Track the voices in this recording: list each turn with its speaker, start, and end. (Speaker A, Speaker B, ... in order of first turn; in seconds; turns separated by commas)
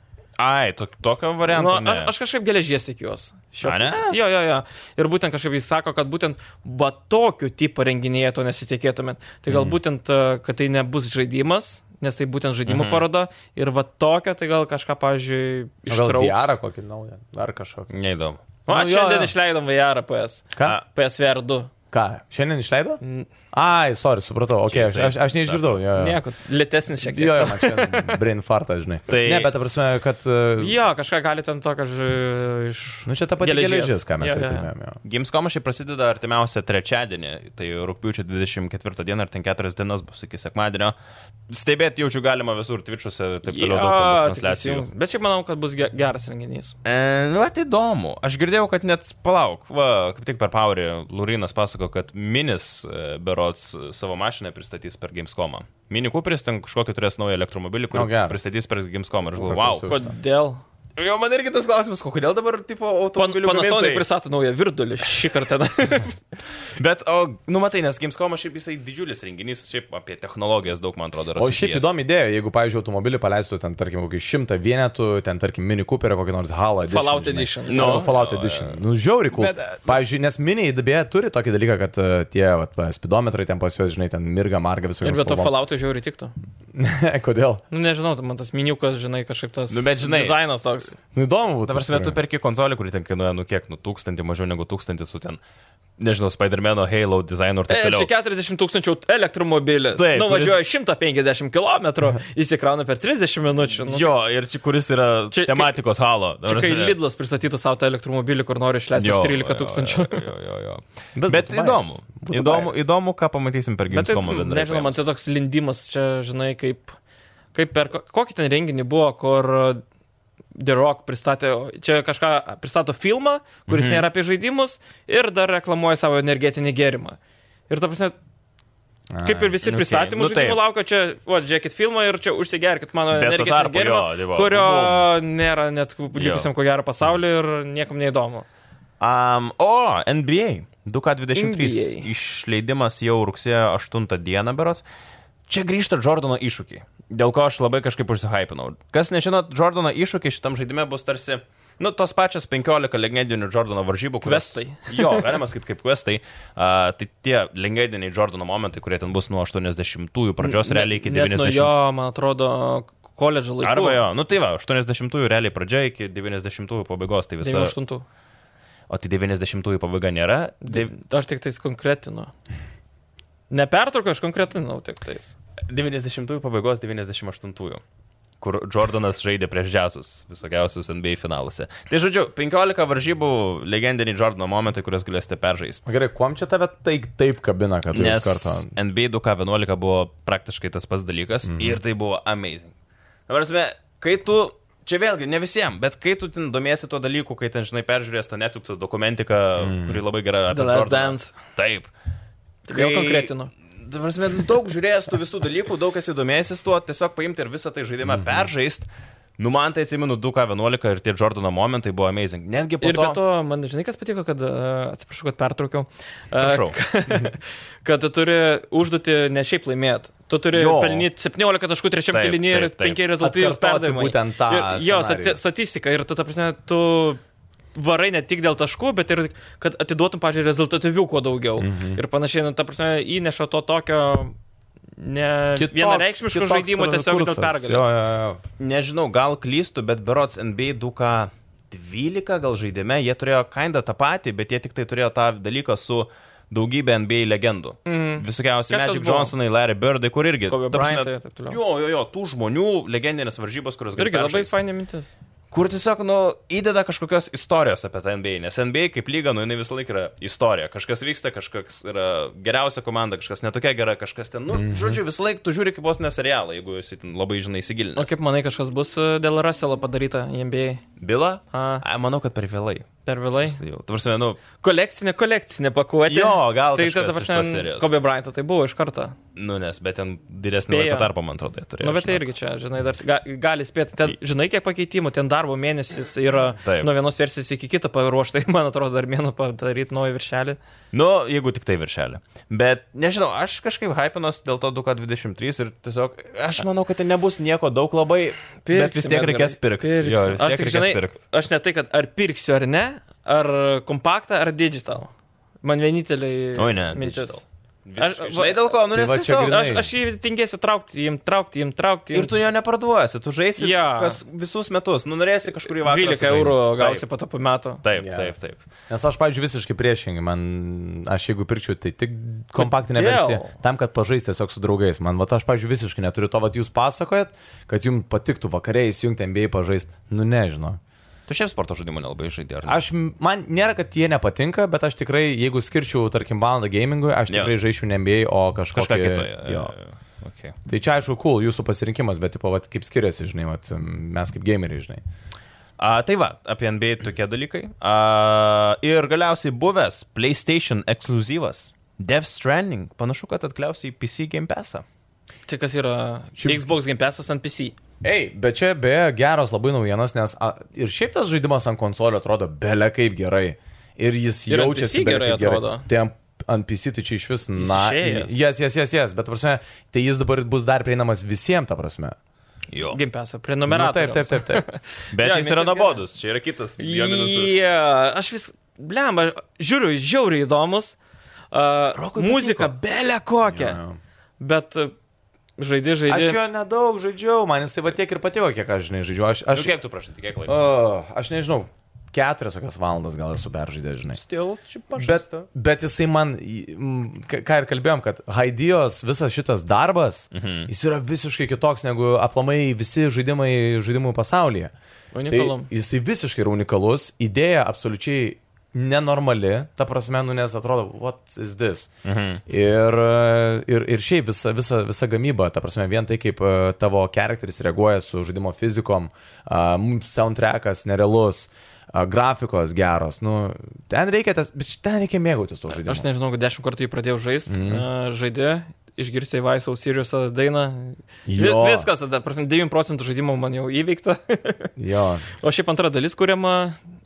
Speaker A: 0.4-2.1, Speaker B: 1.5-16.6, Speaker A: 3.6-4.2, Speaker C: 9.5-9.8, Speaker A: 12.7-13.1, Speaker C: 15.9-17.9, Speaker A: 17.9-18.4, Speaker B: 18.7-21.7, Speaker C: 18.7-19.3, Speaker C: 21.9-23.0, Speaker B: 23.0-23.3, Speaker C: 23.5-26.2, Speaker A: 24.7-25.7, Speaker B: 25.9-28.2, Speaker C: 27.0-30.8, Speaker A: 29.1-29.5, Speaker B: 30.6-34.7, Speaker C: 33.1-35.0, Speaker A: 35.0-41.0, Speaker A: 41.5-44.9, Speaker B: 43.5-46.8, Speaker A: 46.8-59.9, Speaker C: 57.9-58.5, Speaker C: 59.4-60.1, Speaker B: 59.9-60.6, Speaker A: 61.0-64.1, Speaker B: 63.2-66.2, Speaker A: 66.8-71.9, Speaker C: 71.4-85.5, Speaker B: 76.9-78.1, Speaker A: 77.7-80.0, Speaker B: 85.0-86.3, Speaker C: 86.7-87.6, Speaker B: 87.7-91.0, Speaker A: 89.7-90.4, Speaker C: 91.1-92.2, Speaker A: 91.7-95.4, Speaker A: 96.0-98.1, Speaker B: 97.7-104.1, Speaker A: 100.0-100.6, Speaker A: 103.8-107.0, Speaker B: 105.3-105.8, Speaker B: 106.5-110.3, Speaker A: 109.0-115.0, Speaker C: 111.2-112.8, Speaker B: 113.9-117.0, Speaker B: 117.5-119.8, Speaker B: 120.5-127.2, Speaker A: 123.7-124.1, Speaker B: 127.7-128.2, Speaker C: 129.1-129.5, Speaker B: 129.2-138.5, Speaker A: 129.6-130.6, Speaker A: 133.1-135.1, Speaker A: 136.2-136.5, Speaker A: 139.0-144.8, Speaker B: 141.3-142.1, Speaker A: 145.5-161.7, Speaker B: 154.2-155.3, Speaker B: 160.4-164.0, Speaker A: 163.6-167.8, Speaker B: 167.4-168.1, Speaker A: 168.9-170.9, Speaker B: 170.7-172.3, Speaker B: 173.5-175.3, Speaker A: 175.7-177.8, Speaker A: 178.4-185.8, Speaker C: 185.9-188.7, Speaker A: 187.9-192.7, Speaker C: 191.5-191.8, Speaker A: 193.3-201.9, Speaker C: 199.6-200.0, Speaker B: 200.5-201.3, Speaker B: 202.7-203.5, Speaker A: 202.7-213.2, Speaker C: 208.1-208.5, Speaker B: 212.8-227.2, Speaker A: 216.4-216.8, Speaker A: 220.5-221.1, Speaker A: 222.1-223.0, Speaker C: 223.2-225.4, Speaker B: 227.8-234.3, Speaker C: 231.6-232.0, Speaker B: 235.0-237.9, Speaker C: 235.6-238.4, Speaker A: 238.6-254.6, Speaker B: 247.9-249.3, Speaker B: 250.5-251.6, Speaker B: 254.0-255.1, Speaker A: 255.5-268.1, Speaker C: 264.5-265.0, Speaker B: 268.0-270.8, Speaker A: 271.0-272.9, Speaker B: 271.5-271.8, Speaker B: 273.1-273.6, Speaker A: 273.4-274.4, Speaker B: 274.6-279.2, Speaker A: 276.1-277.9, Speaker A: 279.4-282.2, Speaker B: 280.6-281.1, Speaker B: 281.8-290.6, Speaker A: 286.6-286.9, Speaker A: 290.9-301.1, Speaker B: 298.6-305.1, Speaker B: 305.6-307.4, Speaker A: 306.6-309.6, Speaker B: 308.0-308.8, Speaker C: 308.9-309.9, Speaker B: 309.3-312.3, Speaker A: 312.1-317.0, Speaker B: 313.6-314.2, Speaker B: 315.6-317.8, Speaker A: 317.8-318.6, Speaker C: 318.0-318.3, Speaker C: 318.9-330.8, Speaker B: 322.6-323.5, Speaker A: 331.3-332.8, Speaker C: 332.7-339.7, Speaker A: 338.7-340.6, Speaker C: 340.7-345.0, Speaker A: 345.8-354.8, Speaker B: 355.5-357.8, Speaker C: 356.4-356.7, Speaker C: 358.0-372.1, Speaker B: 364.5-365.9, Speaker B: 367.6-368.4, Speaker A: 372.7-373.0, Speaker B: 372.9-376.0, Speaker C: 373.7-374.6, Speaker A: 375.1-377.6, Speaker B: 376.8-381.0, Speaker B: 381.5-383.8, Speaker A: 381.9-382.7, Speaker C: 383.5-384.0, Speaker B: 384.4-384.9, Speaker B: 385.6-386.4, Speaker C: 386.1-389.8, Speaker A: 389.5-390.6, Speaker C: 390.5-394.2, Speaker A: 394.1-395.5, Speaker C: 395.0-404.7, Speaker A: 400.3-400.7, Speaker B: 405.1-405.7, Speaker C: 405.3-411.9, Speaker A: 412.1-412.4, Speaker C: 412.5-426.1, Speaker B: 425.8-434.7, Speaker C: 427.5-427.9, Speaker C: 431.3-431.9, Speaker C: 434.8-435.3, Speaker B: 435.4-436.8